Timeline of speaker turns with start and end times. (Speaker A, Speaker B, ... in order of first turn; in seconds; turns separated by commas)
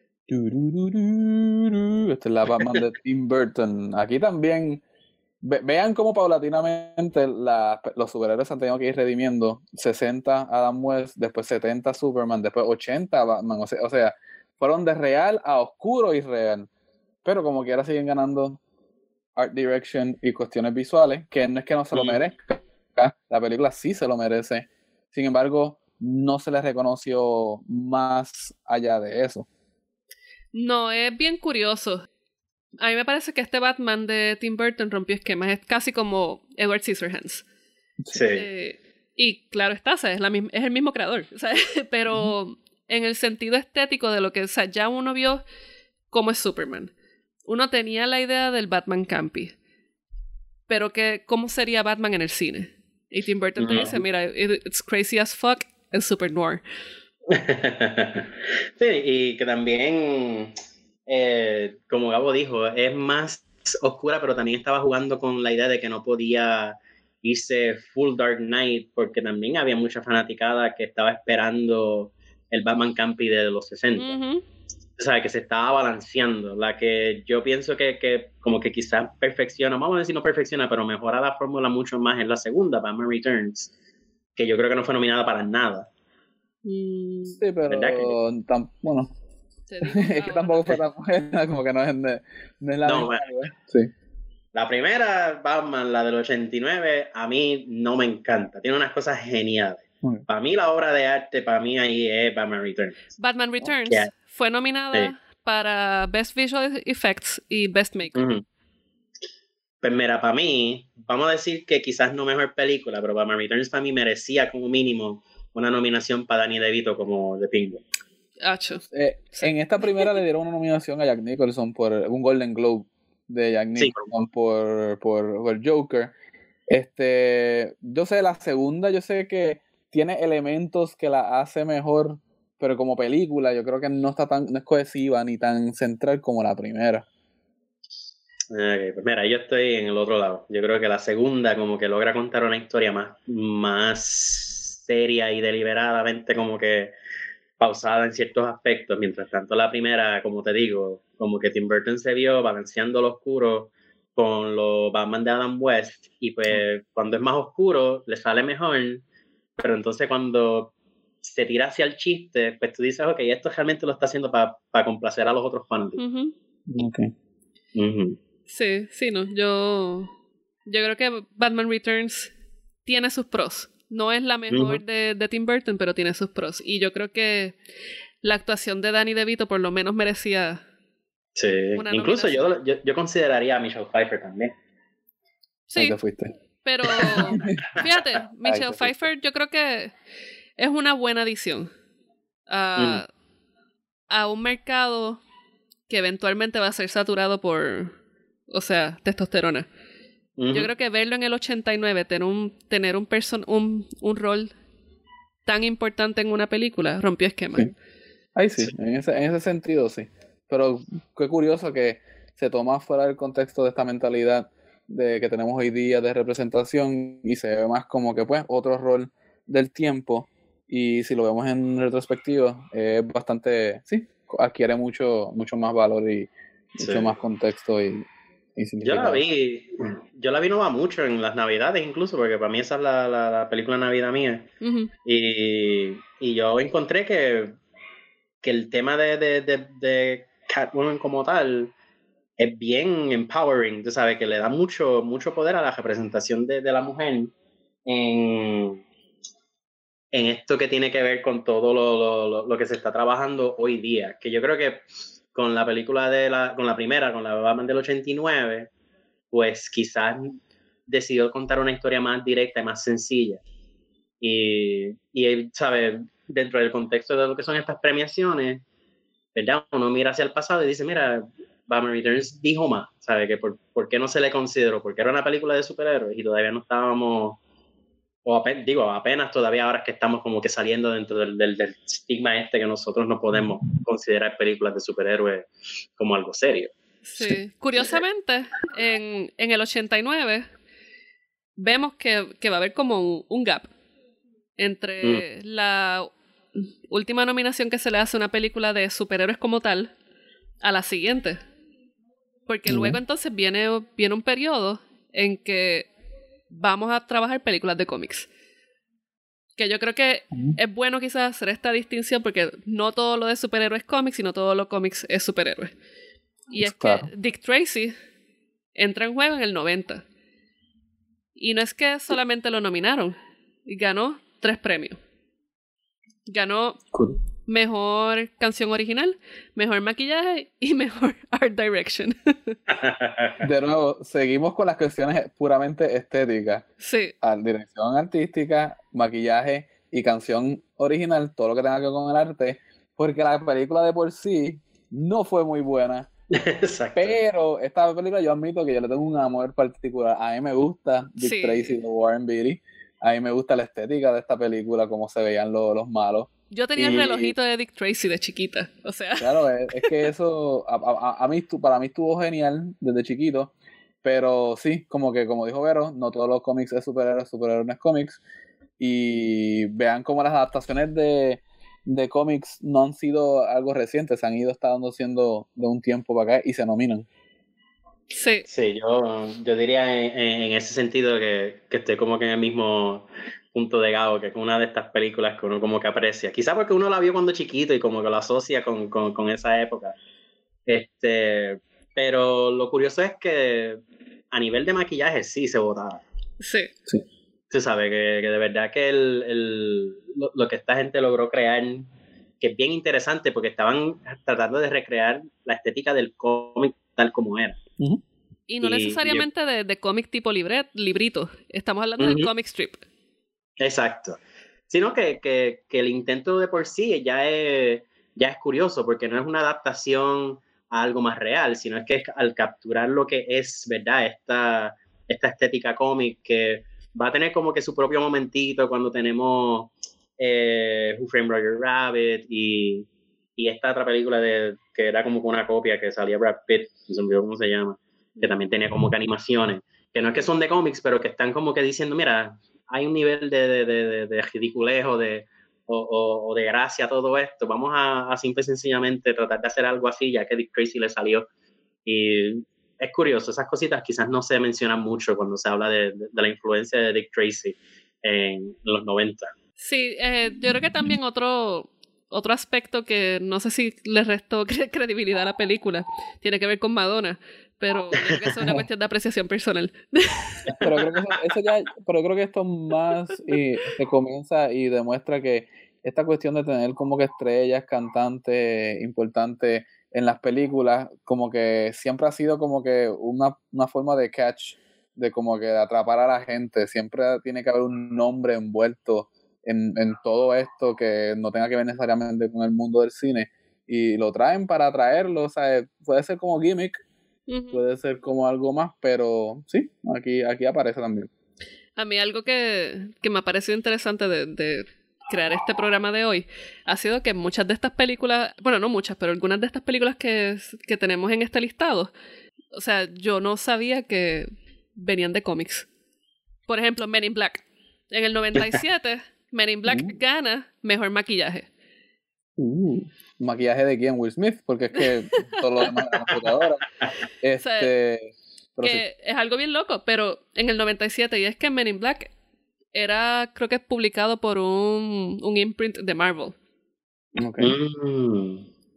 Speaker A: 0.3-4.8, Speaker A: 5.4-16.7, Speaker A: 17.2-18.6, Speaker A: 19.4-29.5, Speaker B: 21.9-22.2, Speaker C: 30.6-32.0, Speaker C: 32.8-37.5, Speaker B: 38.1-38.5, Speaker C: 38.3-45.4, Speaker C: 46.1-46.9, Speaker C: 47.5-49.5, Speaker C: 50.7-56.6, Speaker B: 53.6-54.0, Speaker B: 57.3-60.5, Speaker B: 61.1-74.2, Speaker C: 74.0-74.4, Speaker B: 75.0-83.7, Speaker B: 84.4-85.9, Speaker C: 86.7-87.4, Speaker A: 87.3-89.1, Speaker B: 87.7-88.2, Speaker C: 89.7-90.7, Speaker A: 89.8-93.9, Speaker B: 92.8-93.3, Speaker B: 94.5-103.0, Speaker C: 103.2-108.2, Speaker B: 108.1-108.4, Speaker B: 109.8-117.8, Speaker C: 118.4-120.1, Speaker A: 118.9-126.1, Speaker B: 123.8-124.0, Speaker A: 126.7-137.1, Speaker B: 138.5-146.9, Speaker B: 147.6-159.0, Speaker B: 159.6-166.0, Speaker C: 166.0-166.3, Speaker A: 166.7-167.1, Speaker B: 167.8-168.2, Speaker C: 168.5-170.1, Speaker C: 170.7-172.3, Speaker C: 172.8-177.6, Speaker B: 174.5-174.8, Speaker C: 178.2-180.6, Speaker B: 181.4-184.5, Speaker C: 181.8-182.4, Speaker C: 185.7-186.0, Speaker A: 185.8-186.3, Speaker C: 186.6-189.9, Speaker B: 186.9-187.9, Speaker A: 187.3-187.6, Speaker A: 188.4-188.9, Speaker C: 190.6-191.7, Speaker C: 192.5-193.1, Speaker B: 192.8-193.0, Speaker C: 194.1-195.2, Speaker C: 195.9-197.9, Speaker C: 198.5-199.7, Speaker B: 200.4-200.7, Speaker C: 200.5-204.5, Speaker C: 205.5-207.8, Speaker A: 208.3-229.2, Speaker B: 226.8-227.1, Speaker B: 228.8-234.5, Speaker C: 234.6-234.9, Speaker B: 235.1-237.6, Speaker B: 238.4-241.7, Speaker B: 242.4-247.3, Speaker B: 247.9-248.8, Speaker B: 250.1-258.7, Speaker B: 259.3-263.4, Speaker B: 264.2-268.6, Speaker B: 269.4-277.4, Speaker B: 278.2-286.7, Speaker C: 287.1-290.5, Speaker C: 291.6-293.7, Speaker C: 294.6-296.1, Speaker C: 296.9-299.9, Speaker C: 300.6-301.4, Speaker C: 302.5-305.9, Speaker A: 302.7-303.0, Speaker C: 306.5-308.3, Speaker C: 309.6-315.7, Speaker C: 316.5-317.9, Speaker A: 316.6-317.1, Speaker C: 318.8-320.0, Speaker C: 321.4-323.1, Speaker C: 323.7-325.0, Speaker C: 326.3-326.8, Speaker C: 327.5-332.6, Speaker B: 332.7-333.4, Speaker A: 333.4-336.7, Speaker C: 336.8-337.1, Speaker A: 337.2-346.1, Speaker B: 346.3-347.2, Speaker A: 347.0-356.3, Speaker C: 351.2-351.7, Speaker C: 356.5-359.9, Speaker B: 356.8-357.3, Speaker A: 359.2-368.2, Speaker A: 368.8-377.1, Speaker C: 378.1-378.5, Speaker B: 378.5-390.0, Speaker B: 390.7-396.0, Speaker C: 396.4-396.7, Speaker B: 397.5-407.6, Speaker C: 408.5-412.9, Speaker B: 408.6-409.3, Speaker B: 412.0-412.3, Speaker B: 413.6-451.3, Speaker C: 438.2-438.4, Speaker B: 451.9-459.3, Speaker C: 459.6-470.7, Speaker B: 470.5-471.2, Speaker A: 470.5-496.8, Speaker C: 497.3-497.6, Speaker A: 497.5-501.1, Speaker C: 501.8-511.9, Speaker C: 512.5-515.7, Speaker C: 516.5-521.5, Speaker A: 519.7-519.9, Speaker A: 522.4-526.7, Speaker C: 524.8-525.7, Speaker A: 527.2-528.8, Speaker C: 527.4-527.7, Speaker C: 528.6-532.1, Speaker C: 532.8-536.4, Speaker A: 537.2-537.5, Speaker B: 537.4-538.5